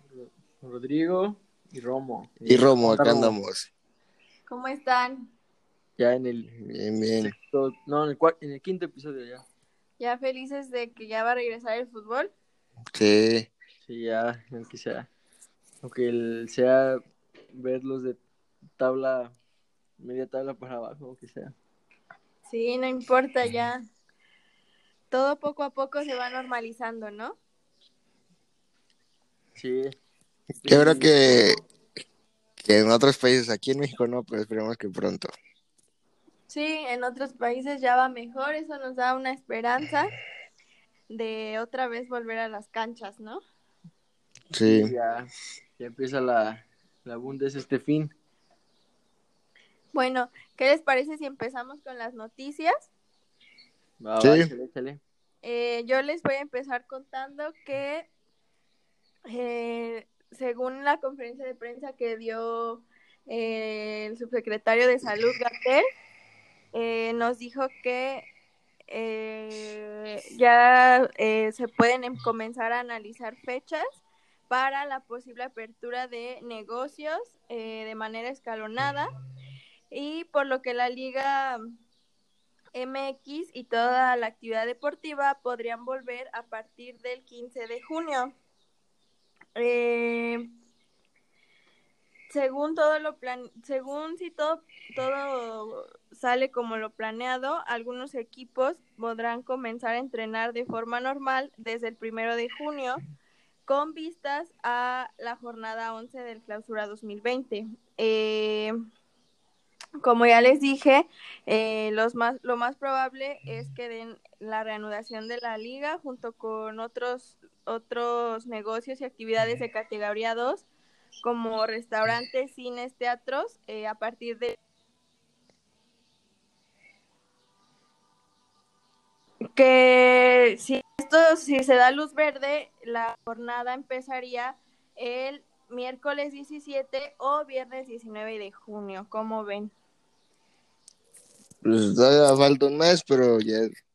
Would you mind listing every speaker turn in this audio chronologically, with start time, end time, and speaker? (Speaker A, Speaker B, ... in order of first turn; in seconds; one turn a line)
Speaker A: 0.1-3.4
Speaker B: 2.5-3.7
Speaker C: 4.5-5.3
Speaker A: 6.0-6.6
Speaker B: 6.6-7.3
Speaker A: 7.2-9.4
Speaker C: 10.0-12.3
Speaker B: 12.9-13.5
Speaker A: 13.8-15.1
Speaker A: 15.8-17.0
Speaker A: 17.5-18.2
Speaker A: 18.8-19.4
Speaker A: 20.0-21.5
Speaker C: 22.5-23.8
Speaker C: 25.1-27.4
Speaker A: 29.6-29.9
Speaker A: 30.6-31.5
Speaker B: 30.7-31.6
Speaker B: 32.6-35.3
Speaker C: 36.5-40.1
Speaker C: 41.1-43.4
Speaker B: 44.5-44.9
Speaker A: 44.6-48.1
Speaker C: 49.9-52.9
Speaker A: 54.0-55.0
Speaker B: 54.2-54.5
Speaker C: 55.4-58.1
Speaker C: 59.3-65.8
Speaker C: 66.7-68.3
Speaker C: 68.9-79.1
Speaker C: 79.9-81.6
Speaker C: 82.7-88.3
Speaker C: 89.6-90.5
Speaker C: 92.3-103.0
Speaker C: 103.7-108.7
Speaker C: 110.0-120.7
Speaker C: 121.2-124.6
Speaker C: 129.6-139.7
Speaker B: 141.6-143.7